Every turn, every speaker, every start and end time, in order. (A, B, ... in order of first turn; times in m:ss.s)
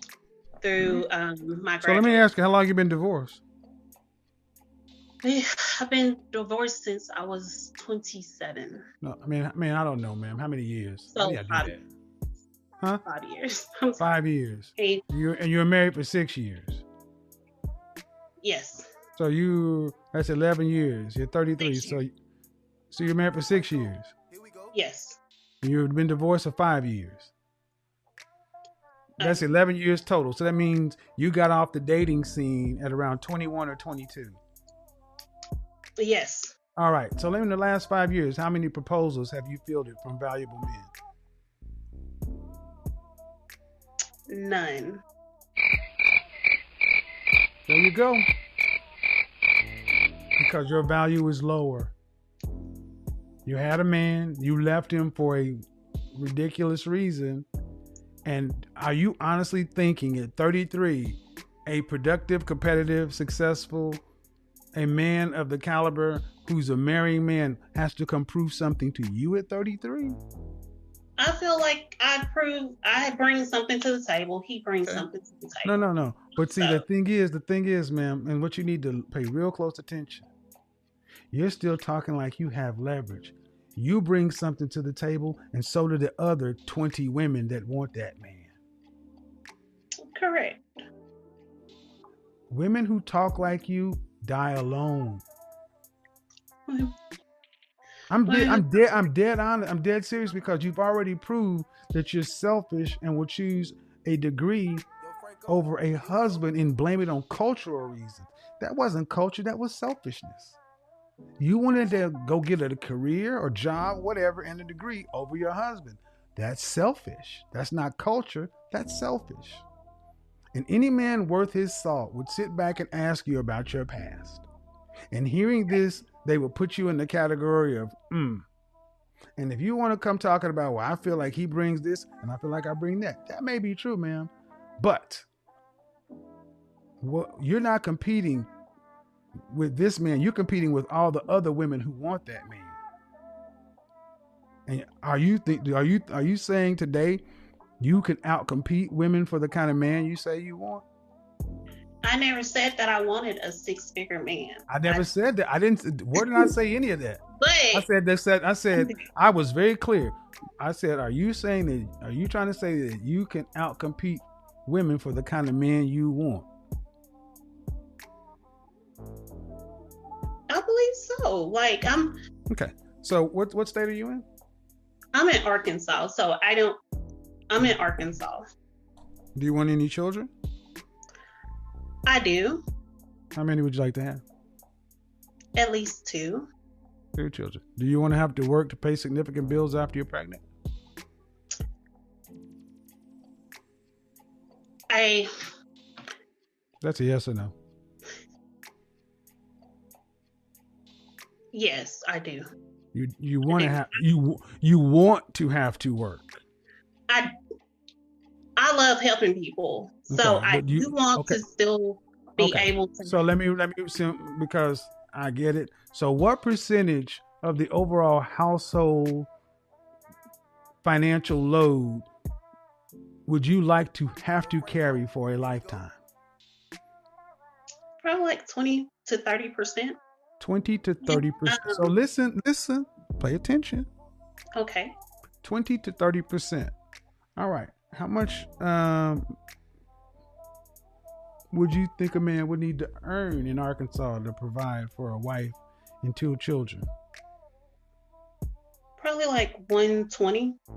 0:00.6-0:02.3 A
0:01.8-0:03.4 B
0:05.2-0:08.8 A
0:09.0-0:11.8 B
0:11.1-0:11.8 A
0:13.0-0:14.1 A
0:14.0-0:16.8 B
0:14.8-0:15.0 A
0:18.4-0:18.9 A
0:19.2-0:22.1 B
0:21.6-0:22.0 A
0:22.9-0:24.1 B
0:24.7-0:25.2 A
0:25.6-0:27.3 B
0:29.2-0:34.4 B
0:36.0-0:36.6 A
0:36.8-0:40.9 B
0:44.3-0:45.0 A
0:47.7-0:48.3 B
0:50.4-0:51.9 B
0:53.4-0:55.6 B
0:56.1-0:57.5 B
0:58.2-1:04.0 B
1:04.8-1:10.2 B
1:11.2-1:15.8 A
1:15.6-1:20.3 B
1:16.4-1:16.8 A
1:21.3-1:28.5 B
1:30.1-1:30.6 A
1:32.5-1:35.2 B
1:36.7-1:36.9 A
1:38.1-1:44.9 B
1:38.3-1:38.7 A
1:45.5-1:50.6 B
1:51.4-1:59.6 B
2:00.5-2:04.5 B
2:05.1-2:08.5 B
2:09.4-2:15.3 B
2:17.0-2:18.5 B
2:19.5-2:22.8 B
2:24.7-2:27.2 B
2:27.8-2:30.8 B
2:32.0-2:35.1 A
2:34.7-2:46.5 B
2:36.2-2:36.5 A
2:37.4-2:37.9 A
2:38.8-2:39.0 A
2:50.5-2:52.1 A
2:52.5-2:54.3 B
2:55.1-2:56.8 A
2:57.5-2:58.4 A
2:59.4-3:00.3 B
3:02.1-3:02.6 A
3:03.4-3:04.2 B
3:05.6-3:06.5 A
3:07.2-3:10.4 B
3:14.9-3:15.3 A
3:16.8-3:17.6 B
3:21.5-3:22.5 A
3:22.9-3:26.4 B
3:23.5-3:24.0 A
3:28.6-3:33.2 A
3:30.1-3:31.4 B
3:32.4-3:39.3 B
3:40.8-3:42.1 B
3:43.3-3:46.0 B
3:48.0-3:50.0 A
3:50.4-3:53.9 B
3:51.1-3:51.9 A
3:54.6-3:55.0 A
3:55.4-3:56.7 B
3:57.4-3:59.4 B
4:01.5-4:06.9 B
4:09.0-4:10.6 A